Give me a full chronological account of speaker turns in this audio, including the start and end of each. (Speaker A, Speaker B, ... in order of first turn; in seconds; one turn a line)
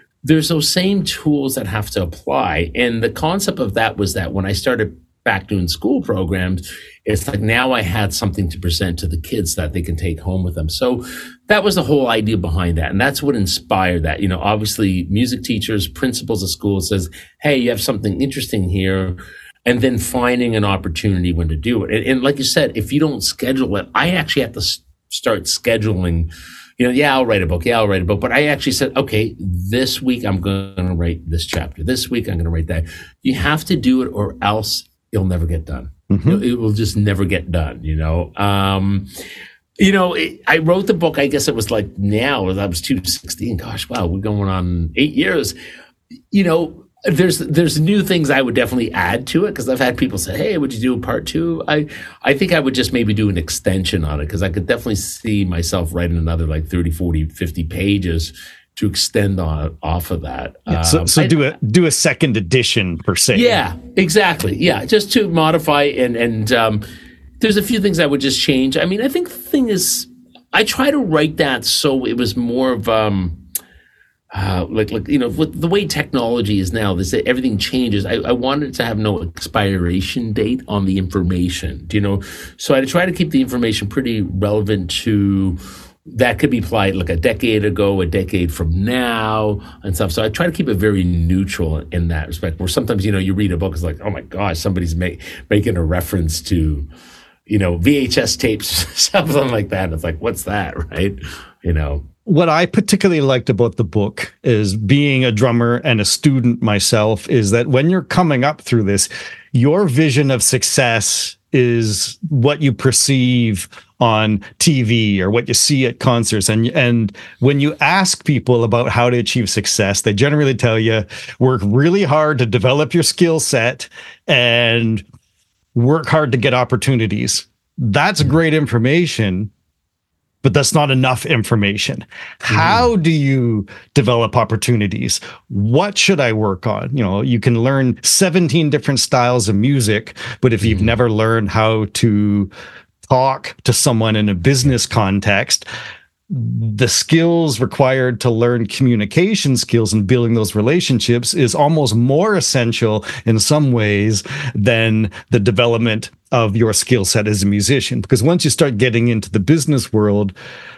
Speaker A: 0.2-39.1
Speaker B: 36.1-36.4
Speaker A: 39.8-45.5
Speaker A: 46.3-61.4
Speaker B: 60.7-63.6
Speaker A: 63.3-66.8
Speaker A: 67.4-73.4
Speaker A: 74.3-96.9
Speaker A: 97.5-102.0
Speaker B: 102.3-125.0
Speaker B: 125.7-129.5
Speaker B: 130.4-142.5
Speaker A: 132.5-132.8
Speaker A: 140.6-140.9
Speaker B: 143.1-145.7
Speaker B: 146.3-160.3